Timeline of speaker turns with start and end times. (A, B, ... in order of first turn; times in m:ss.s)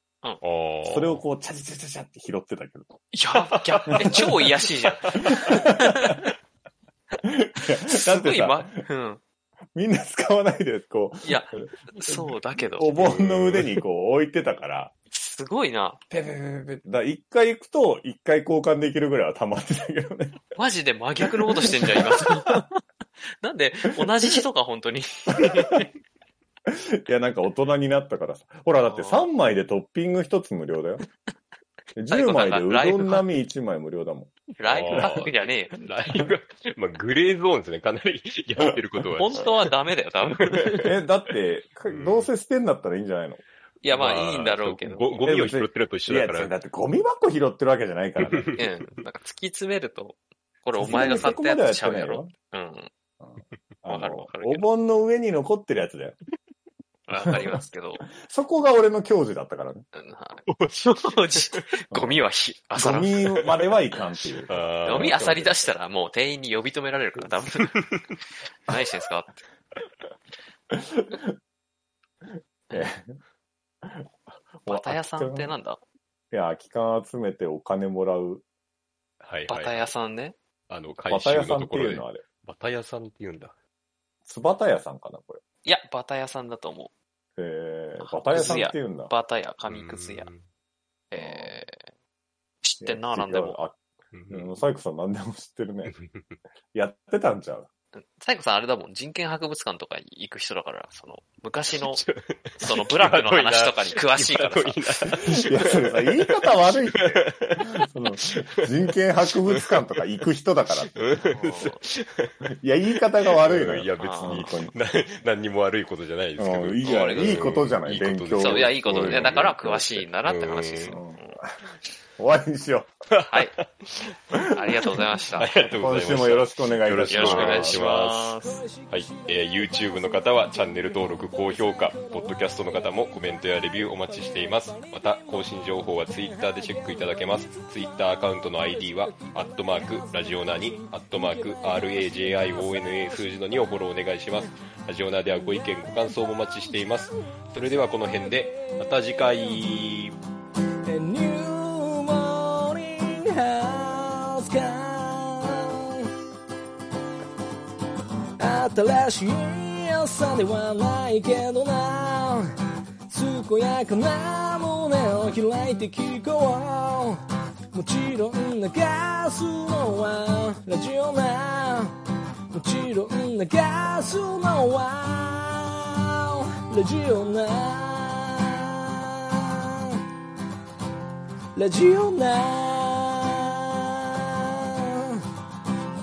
0:00.4-0:01.2 A
0:00.8-0:03.1 B
0:03.1-0:06.2 C
0:03.5-0:04.2 A
0:03.9-0:04.5 B
0:05.1-0:06.2 B
0:07.2-0:08.8 B
0:07.9-0:09.2 C
0:09.7-0:14.9 B
0:11.2-0:12.9 C
0:12.9-0:13.8 A
0:15.1-0:16.0 C
0:16.1-0:20.4 B
0:20.6-0:22.8 C
0:21.2-0:22.6 B
0:23.4-0:25.9 C
0:24.0-0:24.3 B
0:25.4-0:25.8 B
0:26.6-0:31.0 B
0:28.8-0:29.3 C
0:32.0-0:34.3 B
0:32.1-0:33.2 C
0:34.6-0:35.8 C
0:34.6-0:39.7 A
0:39.2-0:40.9 C
0:40.4-0:40.9 A
0:40.8-0:43.4 B
0:41.9-0:42.3 A
0:43.8-0:45.3 C
0:43.9-0:46.5 A
0:45.2-0:48.6 B
0:48.2-0:48.6 A
0:48.5-0:52.9 C
0:50.7-0:52.3 B
0:53.2-0:56.2 B
0:53.9-0:54.7 C
0:57.1-0:58.0 C
0:58.1-0:59.8 B
0:59.9-1:03.3 C
1:00.5-1:01.6 A
1:01.9-1:02.2 B
1:02.7-1:05.5 B
1:04.5-1:05.6 A
1:04.8-1:07.8 C
1:08.7-1:09.4 C
1:10.7-1:11.4 B
1:12.7-1:13.1 B
1:13.8-1:14.1 B
1:14.6-1:15.5 B
1:14.7-1:15.8 C
1:16.3-1:18.4 B
1:19.2-1:19.8 A
1:19.5-1:20.4 C
1:20.7-1:23.5 A
1:21.1-1:22.2 B
1:24.2-1:25.4 B
1:25.6-1:26.9 C
1:27.4-1:29.1 B
1:28.0-1:30.3 C
1:28.4-1:28.6 A
1:29.7-1:30.4 A
1:31.1-1:31.8 C
1:31.2-1:31.6 B
1:32.6-1:33.6 C
1:32.8-1:33.8 B
1:34.1-1:34.5 A
1:34.3-1:35.9 B
1:35.8-1:36.4 A
1:36.7-1:37.7 B
1:37.9-1:42.0 C
1:41.8-1:48.7 A
1:42.6-1:45.3 C
1:45.3-1:50.9 B
1:49.3-1:49.8 A
1:50.9-2:01.0 A
1:51.3-1:51.8 C
1:52.5-1:54.7 B
1:54.0-1:54.5 C
1:56.4-1:59.6 B
1:56.8-1:57.6 C
1:58.4-2:01.4 C
2:00.9-2:01.5 B
2:02.2-2:02.9 B
2:03.1-2:30.2 A
2:03.3-2:03.6 C
2:04.5-2:05.5 C
2:05.8-2:07.8 B
2:07.1-2:08.6 C
2:08.4-2:23.8 D
2:25.3-2:26.9 D
2:27.7-2:29.2 D
2:30.8-2:36.1 D
2:38.4-2:42.5 D
2:43.1-2:47.2 D
2:47.7-2:51.9 D
2:52.5-3:00.0 D
3:01.5-3:05.2 D